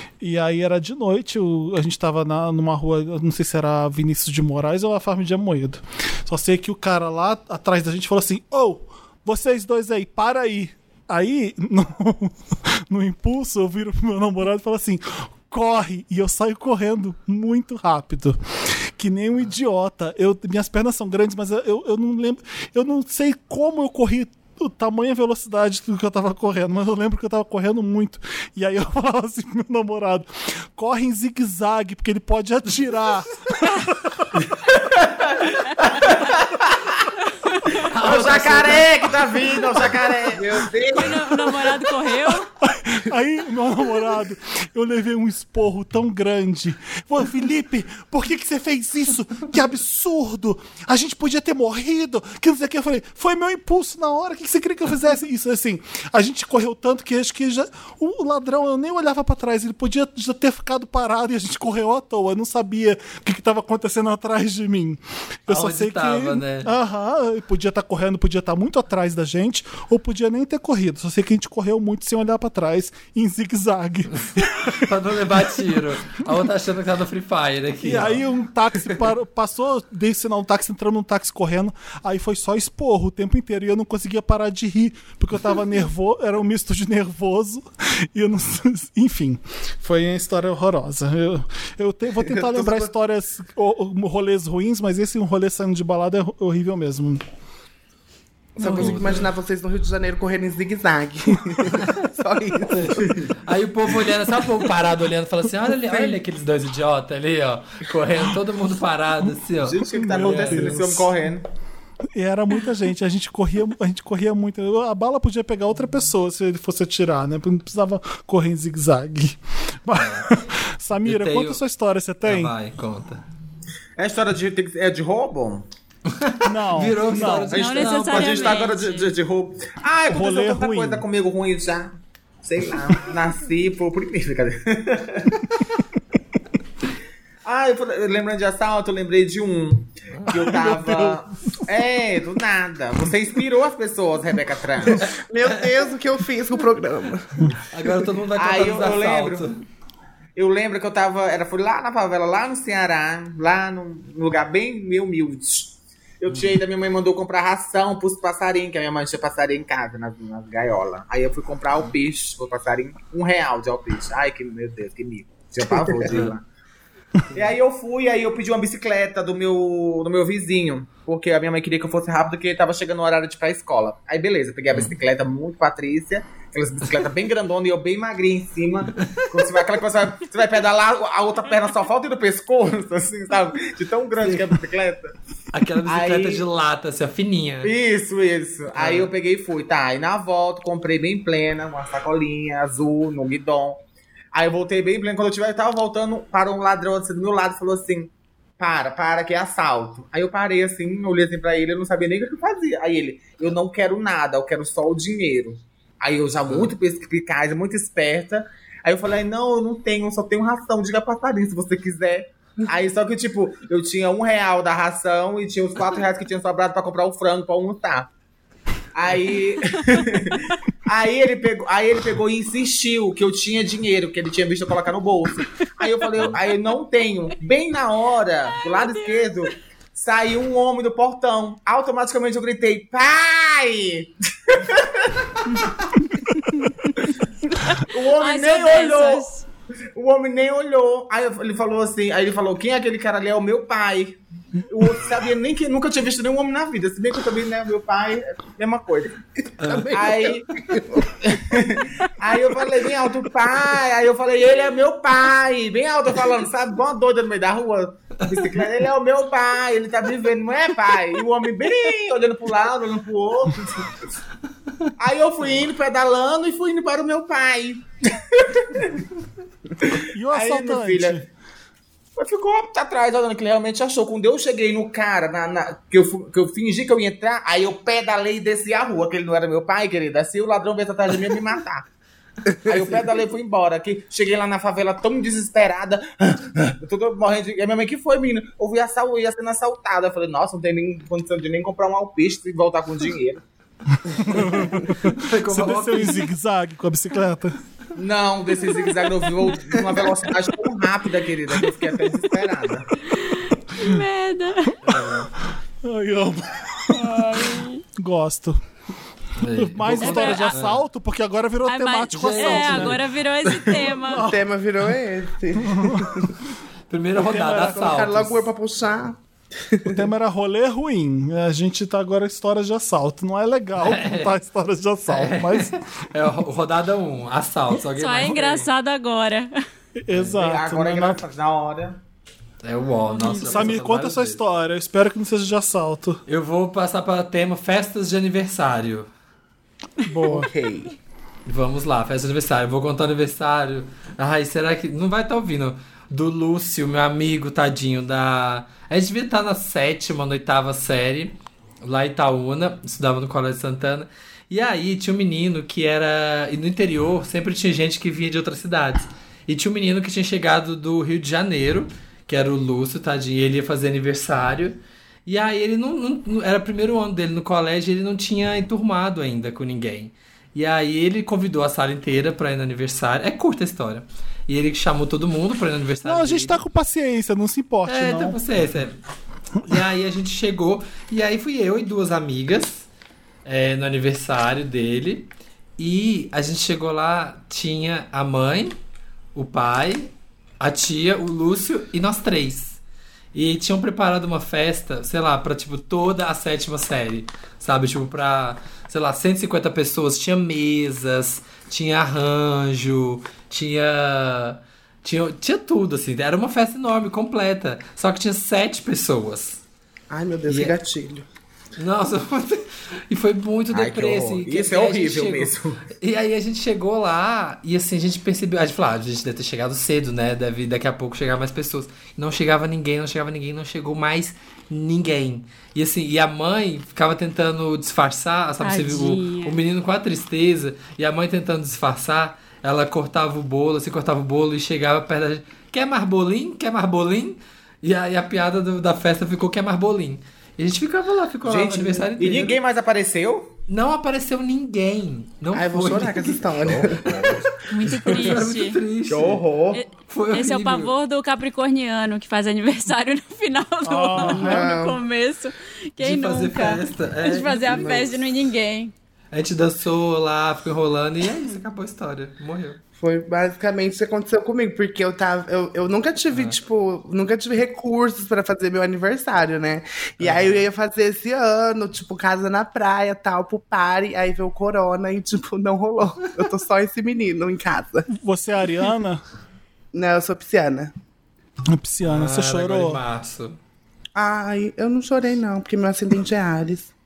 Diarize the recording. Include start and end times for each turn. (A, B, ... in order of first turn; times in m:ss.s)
0:00.2-0:34.4 A
0:34.7-0:35.2 B
0:35.8-0:37.1 B
0:37.4-0:37.8 C
0:37.8-0:39.0 D
0:37.9-0:41.3 B
0:40.3-0:41.0 E
0:40.9-0:42.5 C
0:42.6-1:14.9 A
1:05.5-1:06.7 D
1:14.2-1:18.2 D
1:17.8-1:37.2 A
1:32.2-1:32.9 E
1:38.6-1:43.2 E
1:38.6-1:39.0 C
1:38.6-1:39.3 D
1:42.7-1:51.0 D
1:45.9-1:46.2 E
1:49.6-1:51.4 B
1:50.0-1:51.1 A
1:52.1-2:02.5 A
2:00.0-2:00.3 D
2:01.1-2:01.6 D
2:02.3-2:03.2 D
2:04.0-2:05.6 B
2:06.1-2:08.7 D
2:06.4-2:07.6 A
2:07.5-2:15.4 B
2:07.5-2:09.1 C
2:10.1-2:11.0 A
2:17.4-2:25.1 B
2:20.1-2:20.4 D
2:20.4-2:21.6 A
2:25.0-2:25.7 D
2:25.1-2:27.6 E
2:27.6-2:29.6 D
2:28.4-2:29.5 B
2:30.4-2:46.4 B
2:45.7-2:46.0 E
2:47.3-3:05.2 B
2:59.0-2:59.5 D
3:04.2-3:04.6 D
3:05.5-3:07.7 D
3:05.8-3:06.4 B
3:07.6-3:13.8 B
3:08.8-3:09.1 D
3:14.3-3:38.1 B
3:39.0-3:55.7 B
3:48.5-3:49.5 C
3:56.5-3:59.4 C
3:57.8-3:59.3 B
4:00.0-4:09.2 B
4:09.6-4:09.9 D
4:09.6-4:11.1 E
4:09.9-4:10.5 B
4:11.0-4:23.9 B
4:18.3-4:18.5 D
4:25.0-4:29.0 B
4:29.8-4:31.2 B
4:30.1-4:31.3 A
4:32.2-4:41.9 B
4:42.5-4:43.0 E
4:42.7-4:53.4 B
4:54.1-4:54.6 B
4:54.3-4:57.6 A
4:54.4-4:56.3 D
4:58.0-5:02.9 B
5:03.1-5:04.8 C
5:04.8-5:05.3 D
5:05.8-5:07.2 A
5:06.9-5:07.8 C
5:08.0-5:08.6 A
5:09.4-5:10.8 D
5:09.5-5:14.4 A
5:10.0-5:10.6 C
5:11.7-5:14.3 C
5:12.1-5:13.0 D
5:14.2-5:16.3 E
5:15.6-5:16.3 A
5:16.9-5:18.5 D
5:17.2-5:20.0 E
5:19.9-5:25.8 A
5:23.8-5:24.3 D
5:25.1-5:28.7 D
5:27.9-5:29.6 C
5:30.0-5:31.2 A
5:30.3-5:32.0 B
5:32.6-5:34.4 D
5:33.1-5:33.8 C
5:33.3-5:36.2 A
5:36.3-5:39.1 D
5:40.0-5:40.5 A
5:40.2-5:41.0 E
5:41.5-6:16.6 D
6:16.0-6:18.4 A
6:17.9-6:19.0 D
6:19.6-6:22.9 D
6:23.4-6:28.8 D
6:29.4-6:32.8 D
6:33.3-6:49.6 D
6:50.1-6:51.3 E
6:50.5-6:50.7 D
6:51.8-7:22.6 D
6:53.7-6:55.8 B
7:08.6-7:09.6 C
7:21.4-7:23.5 B
7:23.7-7:26.4 D
7:25.6-7:27.4 E
7:26.6-7:27.5 B
7:27.7-7:28.8 C
7:28.0-7:29.4 D
7:29.1-7:29.8 B
7:29.7-7:38.9 C
7:30.0-7:30.9 D
7:33.8-7:34.7 A
7:34.2-7:35.0 E
7:36.0-7:38.1 D
7:39.3-7:42.8 D
7:43.0-7:58.1 E
7:46.3-7:46.6 D
7:50.2-7:50.6 D
7:58.1-7:59.2 A
7:59.9-8:00.9 E
8:01.7-8:03.0 A
8:02.1-8:03.6 D
8:04.2-8:06.9 E